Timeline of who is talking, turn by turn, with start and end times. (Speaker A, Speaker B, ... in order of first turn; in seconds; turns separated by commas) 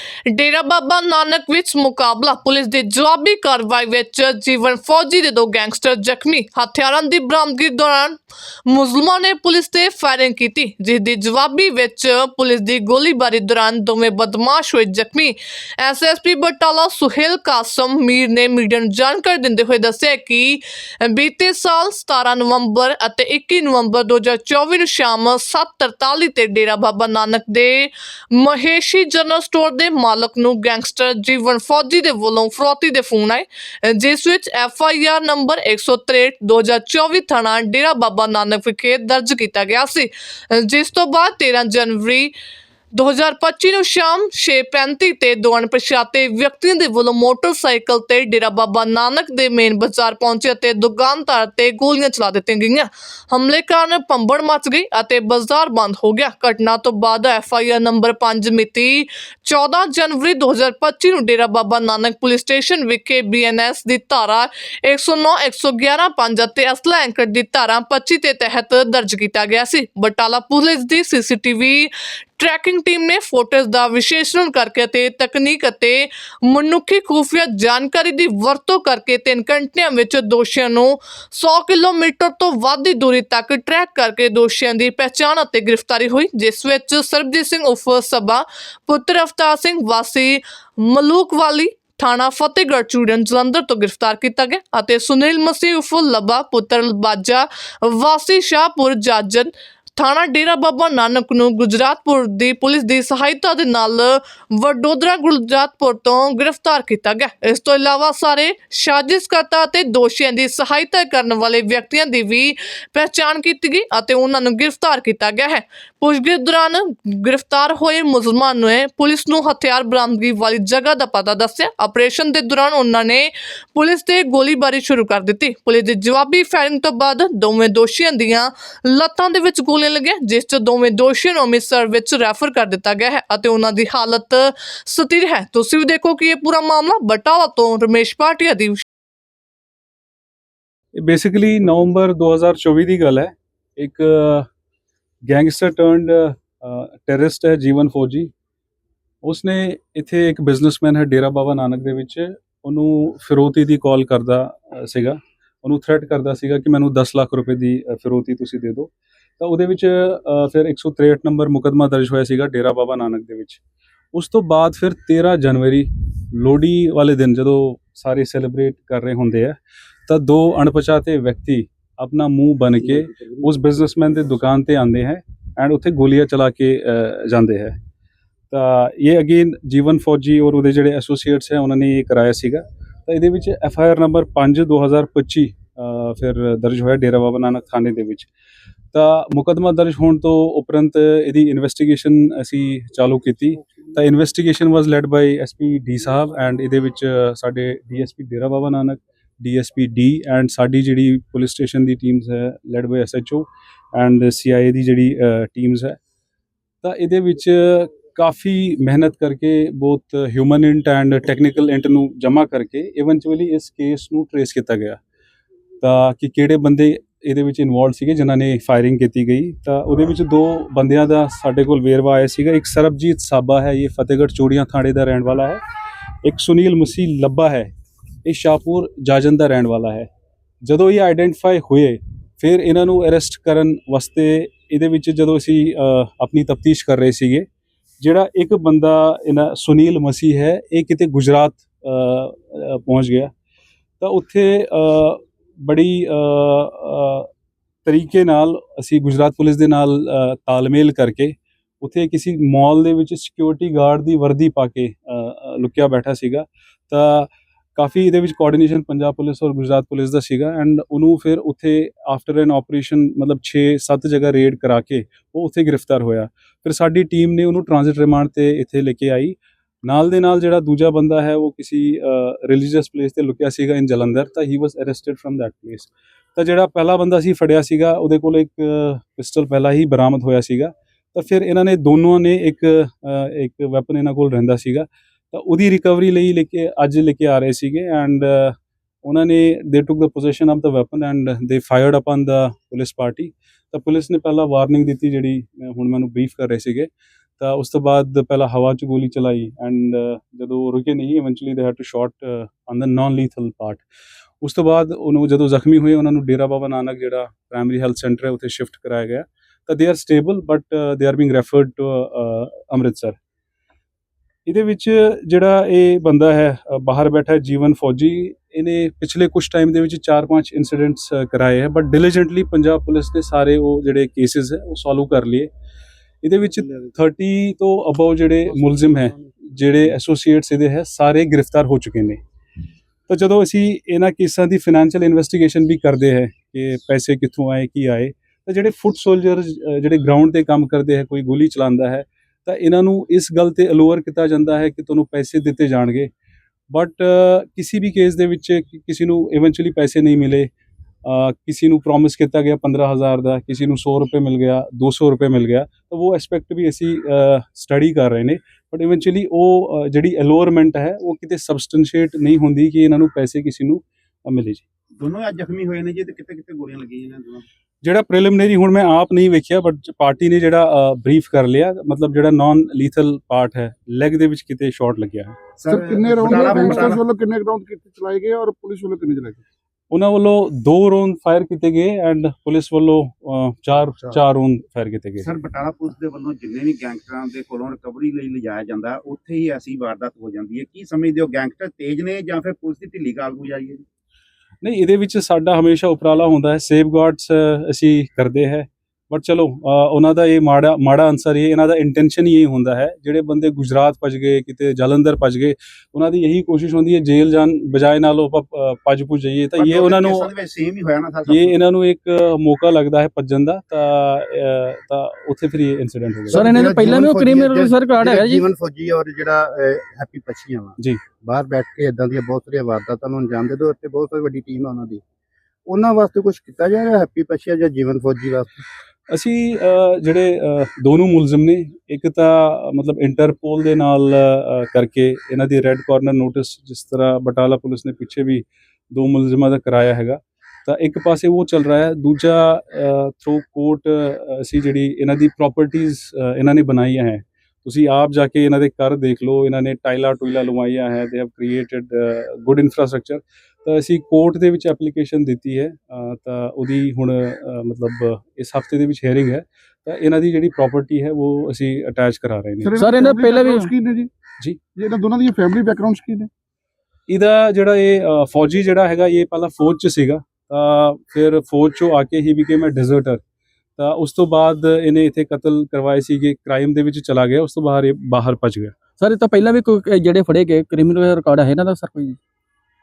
Speaker A: 0.3-42.3, Speaker A: 42.9-138.8, Speaker B: 141.0-144.5, Speaker B: 145.3-148.3, Speaker B: 149.2-163.6, Speaker B: 164.1-169.6, Speaker B: 170.1-177.8, Speaker B: 178.5-188.3, Speaker B: 188.9-206.0, Speaker B: 206.8-215.0, Speaker B: 215.8-225.6, Speaker B: 226.2-227.7, Speaker B: 228.2-230.1, Speaker B: 230.6-237.4, Speaker B: 238.0-243.3, Speaker B: 244.0-247.3, Speaker B: 247.9-303.8, Speaker B: 304.4-313.1, Speaker B: 314.5-325.5, Speaker B: 326.2-332.2, Speaker B: 333.1-346.1, Speaker B: 346.7-350.5, Speaker B: 351.1-364.6, Speaker C: 365.0-367.4, Speaker B: 367.8-375.4, Speaker C: 375.6-377.0, Speaker D: 375.7-379.4, Speaker B: 379.9-385.3, Speaker C: 385.2-393.8, Speaker B: 394.6-410.3, Speaker C: 409.6-411.6, Speaker B: 411.3-416.5, Speaker E: 416.3-418.4, Speaker F: 416.4-425.0, Speaker F: 425.7-428.6, Speaker B: 429.1-462.8, Speaker D: 462.6-464.1, Speaker E: 462.8-463.7, Speaker D: 464.8-466.3, Speaker B: 467.1-473.2, Speaker B: 473.8-478.8, Speaker E: 479.0-482.2